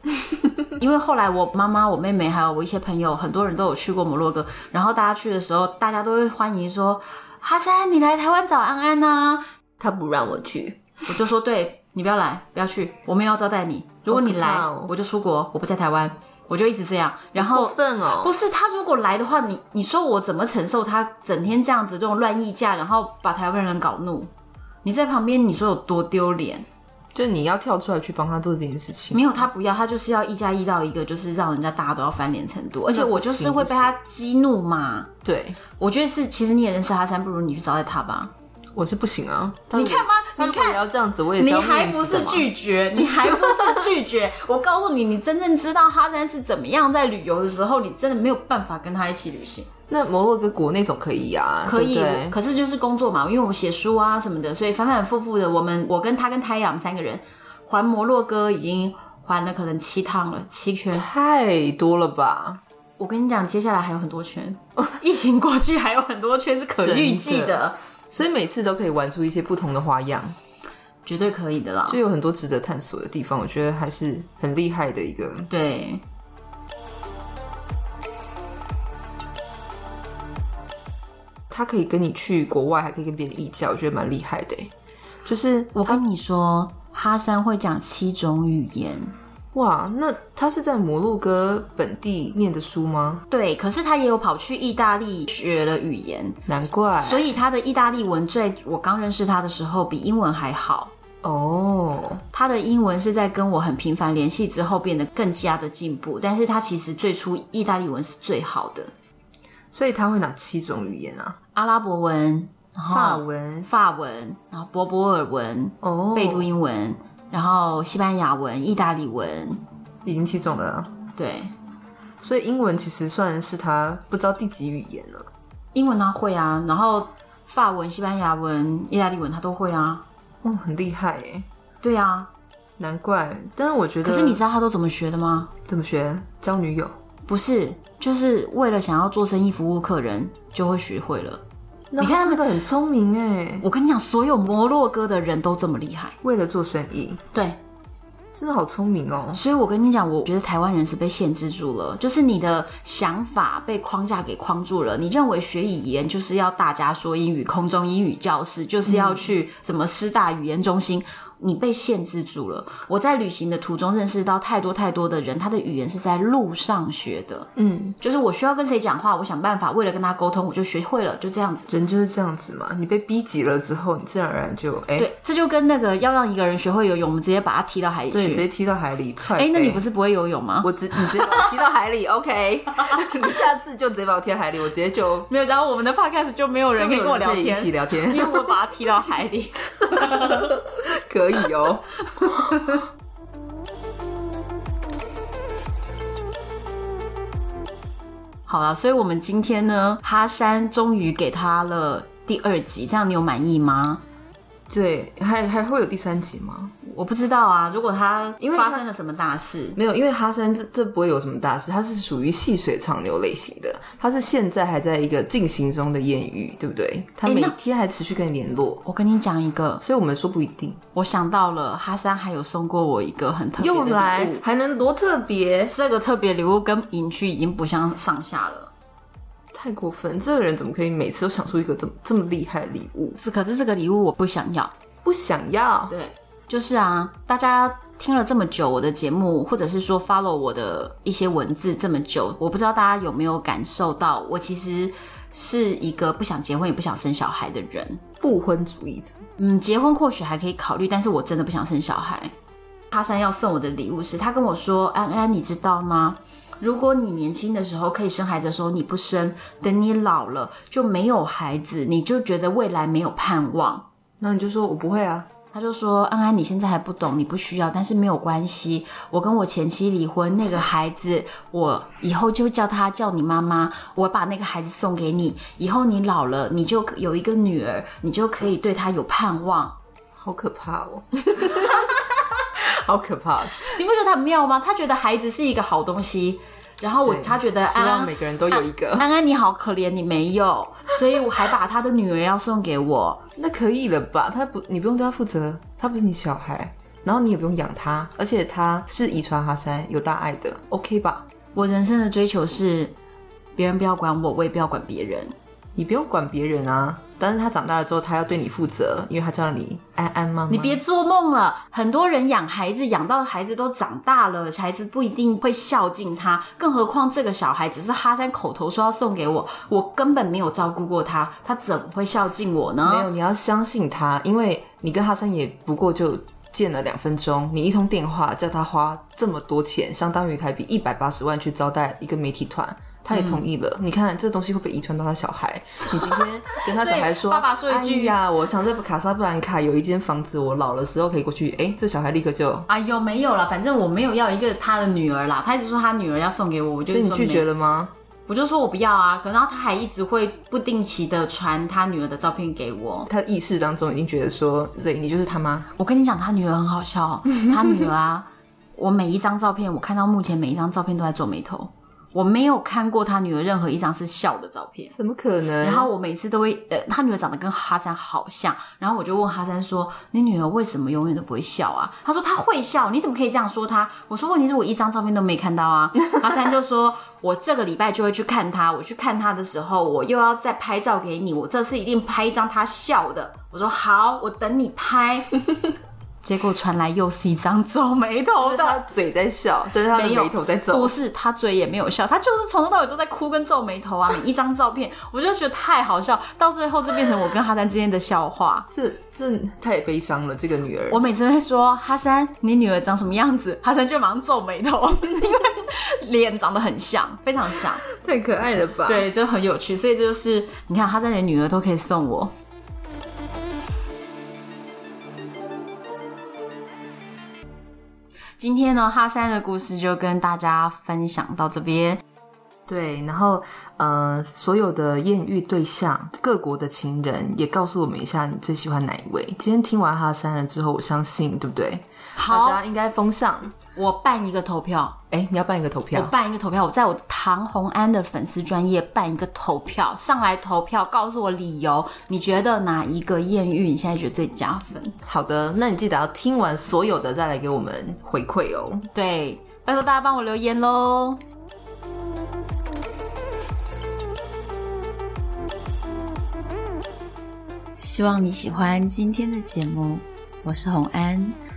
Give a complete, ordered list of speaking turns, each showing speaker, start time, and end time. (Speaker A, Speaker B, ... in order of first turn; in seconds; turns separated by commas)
Speaker A: 0.7-9.5, Speaker B: 9.8-10.8, Speaker A: 11.1-24.3, Speaker B: 14.1-14.9, Speaker B: 17.4-18.3, Speaker A: 24.8-26.7, Speaker B: 27.1-29.5, Speaker A: 29.1-35.1, Speaker B: 32.9-33.9, Speaker B: 35.2-35.6, Speaker A: 35.8-38.3, Speaker B: 38.8-42.5, Speaker A: 39.7-40.8, Speaker A: 41.4-49.7, Speaker B: 43.2-43.9, Speaker B: 49.9-52.4, Speaker A: 51.7-61.1, Speaker B: 60.9-62.6, Speaker A: 63.0-67.8, Speaker B: 66.8-70.4, Speaker A: 71.0-72.0, Speaker B: 71.9-75.5, Speaker A: 75.5-76.0, Speaker B: 81.5-84.7, Speaker B: 85.2-86.0, Speaker A: 85.8-89.1, Speaker B: 89.5-93.2, Speaker A: 93.3-96.4, Speaker B: 96.5-97.3, Speaker A: 97.0-100.9, Speaker B: 101.2-102.2, Speaker A: 102.3-108.9, Speaker B: 109.7-111.4, Speaker A: 111.5-119.6, Speaker B: 112.9-113.7, Speaker B: 115.8-116.5, Speaker B: 120.0-120.9, Speaker A: 121.2-121.5, Speaker B: 122.2-125.3, Speaker A: 125.8-130.0, Speaker B: 130.4-131.5, Speaker A: 131.8-132.3, Speaker B: 132.8-134.4, Speaker A: 134.0-135.5, Speaker B: 135.7-136.9, Speaker A: 137.3-141.4, Speaker B: 141.9-143.7, Speaker A: 142.0-142.4, Speaker A: 143.6-146.2, Speaker B: 146.2-147.2, Speaker A: 147.3-147.6, Speaker B: 148.3-149.4, Speaker A: 149.3-167.5, Speaker B: 158.9-159.3, Speaker B: 167.6-168.0, Speaker A: 168.0-171.7, Speaker B: 171.7-175.1, Speaker A: 175.0-178.5, Speaker B: 178.1-179.8, Speaker A: 179.3-181.5, Speaker B: 180.6-185.3, Speaker A: 185.3-190.5, Speaker B: 186.8-188.5, Speaker B: 189.8-192.8, Speaker A: 192.2-192.8, Speaker A: 198.5-204.0, Speaker B: 204.7-206.8, Speaker A: 206.8-209.8, Speaker B: 208.4-208.8, Speaker B: 209.8-218.8, Speaker A: 217.2-217.6, Speaker A: 218.8-219.8, Speaker B: 219.8-220.8, Speaker A: 220.9-224.4, Speaker B: 223.6-225.8, Speaker A: 225.7-228.7, Speaker B: 229.5-233.2, Speaker A: 233.2-234.7, Speaker B: 235.0-235.9, Speaker A: 235.9-248.0, Speaker B: 248.2-249.2, Speaker A: 249.4-252.3, Speaker A: 252.9-263.9, Speaker B: 264.2-265.3, Speaker A: 265.5-279.8, Speaker B: 280.2-283.8, Speaker A: 283.6-293.2, Speaker B: 287.0-289.1, Speaker B: 293.4-301.3, Speaker A: 301.6-302.9, Speaker A: 303.6-305.3, Speaker B: 305.8-310.8, Speaker A: 310.5-323.1, Speaker B: 322.9-342.7, Speaker A: 333.1-333.4, Speaker A: 336.5-338.1, Speaker A: 342.7-347.4, Speaker B: 346.9-347.9, Speaker A: 348.3-353.1, Speaker B: 353.1-355.7, Speaker A: 355.8-365.0, Speaker B: 364.9-365.9, Speaker A: 365.6-385.3, Speaker A: 386.2-388.8, Speaker B: 388.4-390.9, Speaker A: 389.9-398.7, Speaker B: 398.7-401.0, Speaker A: 400.9-407.8, Speaker B: 407.9-409.1, Speaker A: 408.9-412.3, Speaker A: 418.4-422.0, Speaker B: 422.7-433.6, Speaker A: 432.1-432.6, Speaker A: 433.8-435.0, Speaker B: 435.1-436.1, Speaker A: 435.9-445.0, Speaker B: 445.1-448.9, Speaker A: 448.9-451.2, Speaker A: 457.8-461.4